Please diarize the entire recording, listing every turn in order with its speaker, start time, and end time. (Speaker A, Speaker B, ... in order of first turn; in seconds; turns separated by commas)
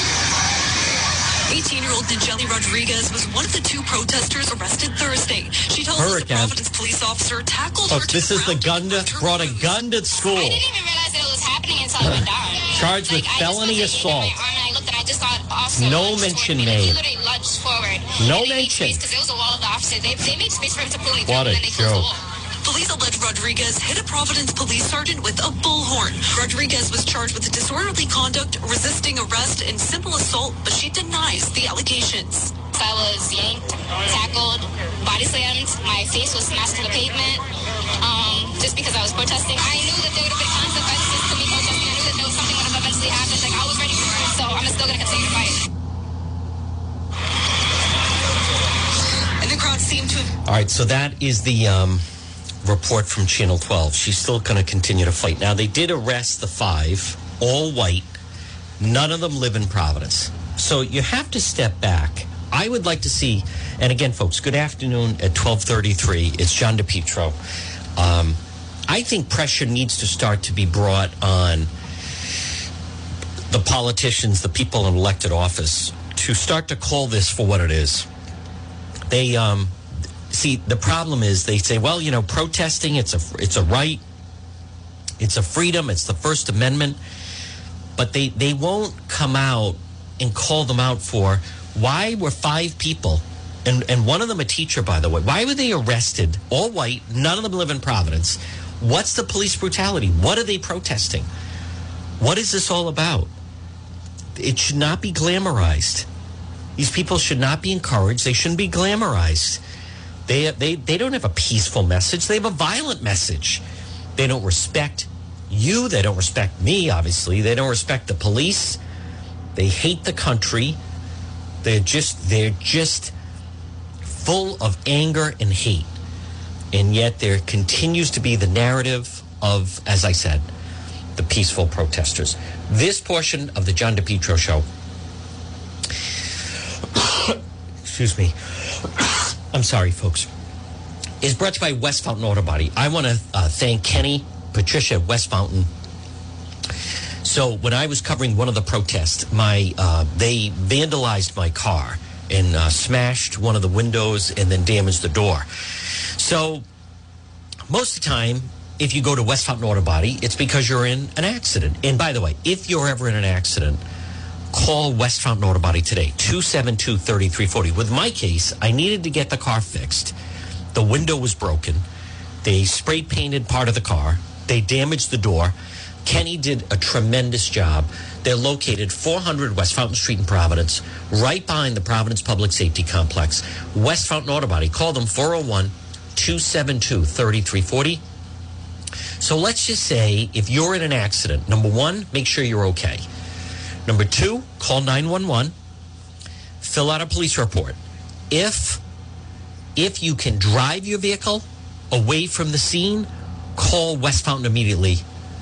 Speaker A: 1.5-9.8, Speaker B: 5.9-6.5, Speaker B: 7.9-10.6, Speaker C: 10.2-22.2, Speaker B: 12.0-14.4, Speaker B: 15.7-17.0, Speaker B: 18.2-19.0, Speaker B: 21.3-22.1, Speaker A: 22.6-32.5, Speaker C: 32.7-37.4, Speaker C: 38.0-45.6, Speaker A: 49.4-50.3, Speaker B: 50.5-52.0, Speaker B: 52.6-58.1, Speaker B: 58.8-67.3, Speaker B: 68.0-71.7, Speaker B: 73.5-78.1, Speaker B: 79.1-79.7, Speaker B: 80.3-84.0, Speaker B: 85.2-87.0, Speaker B: 88.0-101.3, Speaker B: 102.2-103.3, Speaker B: 104.3-106.0, Speaker B: 106.8-109.6, Speaker B: 110.3-113.6, Speaker B: 114.2-118.8, Speaker B: 119.5-120.8, Speaker B: 121.6-123.1, Speaker B: 124.0-125.9, Speaker B: 126.7-130.4, Speaker B: 131.2-134.6, Speaker B: 136.9-140.3, Speaker B: 141.2-145.7, Speaker B: 147.2-155.4, Speaker B: 156.2-156.6, Speaker B: 157.7-163.8, Speaker B: 164.5-170.1, Speaker B: 170.7-171.8, Speaker B: 172.4-188.0, Speaker B: 189.2-193.0, Speaker B: 193.8-195.5, Speaker B: 196.6-197.8, Speaker B: 198.3-198.8, Speaker B: 199.8-205.0